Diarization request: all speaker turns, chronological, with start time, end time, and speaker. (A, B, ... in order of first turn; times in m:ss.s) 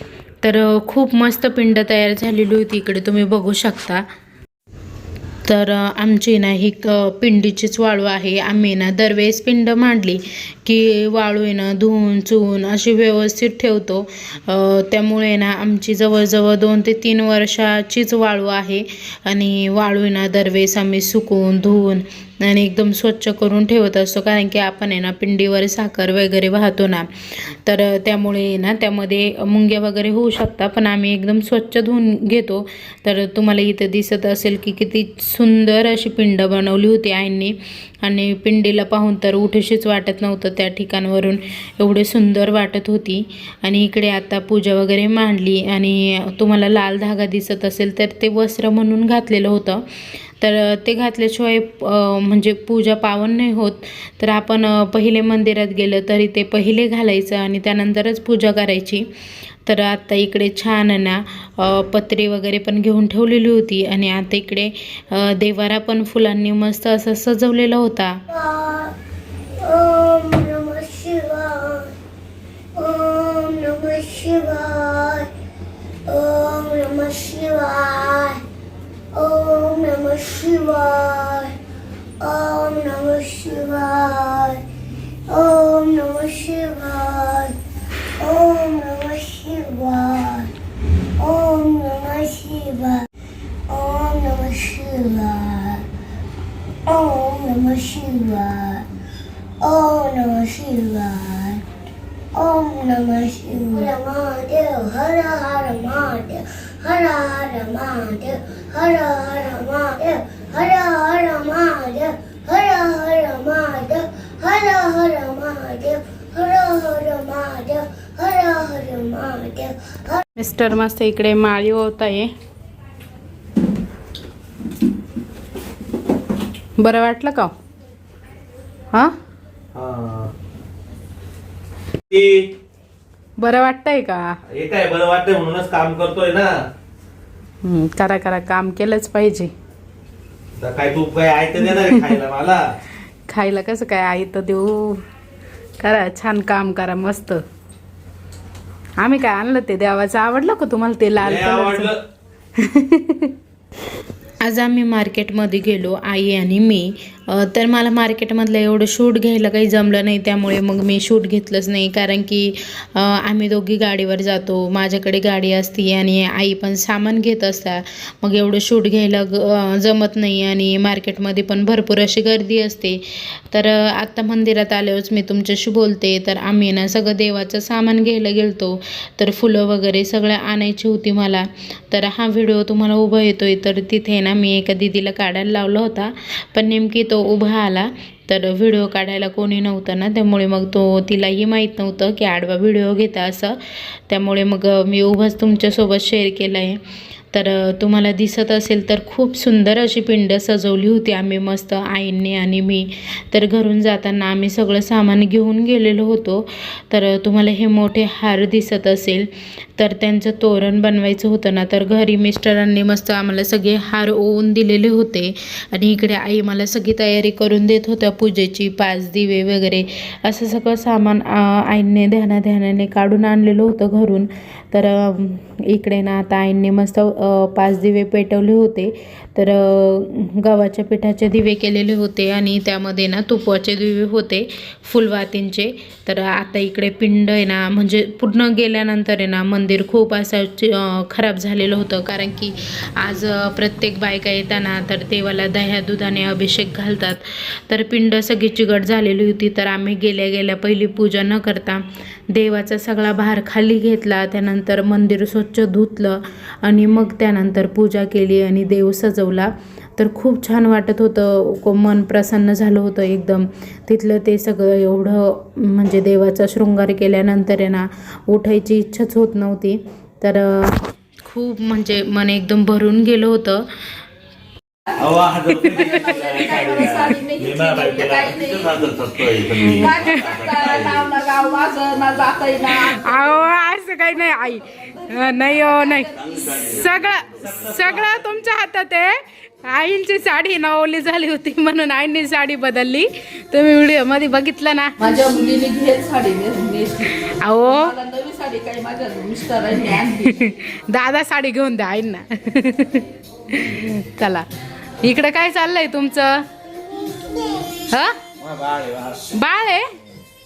0:00.4-0:04.0 A
0:05.5-0:49.9 A
0:50.4-0:59.1 A
0:59.6-1:08.2 A
1:08.3-1:08.9 B
1:09.6-1:11.9 B
1:12.8-1:15.3 B
1:16.1-1:18.4 B
1:19.1-1:21.5 B
1:22.2-1:24.6 B
1:25.3-1:27.6 B
1:28.2-1:30.5 B
1:31.2-1:33.1 B
1:33.7-1:35.8 B
1:36.9-1:38.9 B
1:39.6-1:41.6 B
1:42.3-2:00.2 B
2:00.4-2:02.3 A
2:06.8-2:07.5 A
2:09.8-2:10.3 C
2:12.1-2:12.4 C
2:13.4-2:14.4 A
2:14.5-2:16.5 C
2:17.6-2:19.5 A
2:20.6-2:22.6 C
2:21.6-2:22.1 A
2:23.3-2:25.0 A
2:25.8-2:27.4 A
2:29.0-2:31.9 A
2:31.2-2:32.0 C
2:32.6-2:33.3 A
2:34.4-3:16.8 A
3:17.3-4:33.7 A
4:35.0-4:41.1 C
4:35.7-4:43.4 D
4:39.6-4:40.4 A
4:42.9-4:55.0 A
4:44.9-4:46.7 D
4:46.2-4:48.1 C
4:55.0-5:00.4 D
4:57.3-4:57.9 A
5:00.2-5:04.5 A
5:05.0-5:06.4 A
5:07.1-5:07.8 B
5:07.9-5:08.2 A
5:08.4-5:09.3 C
5:09.3-5:09.9 A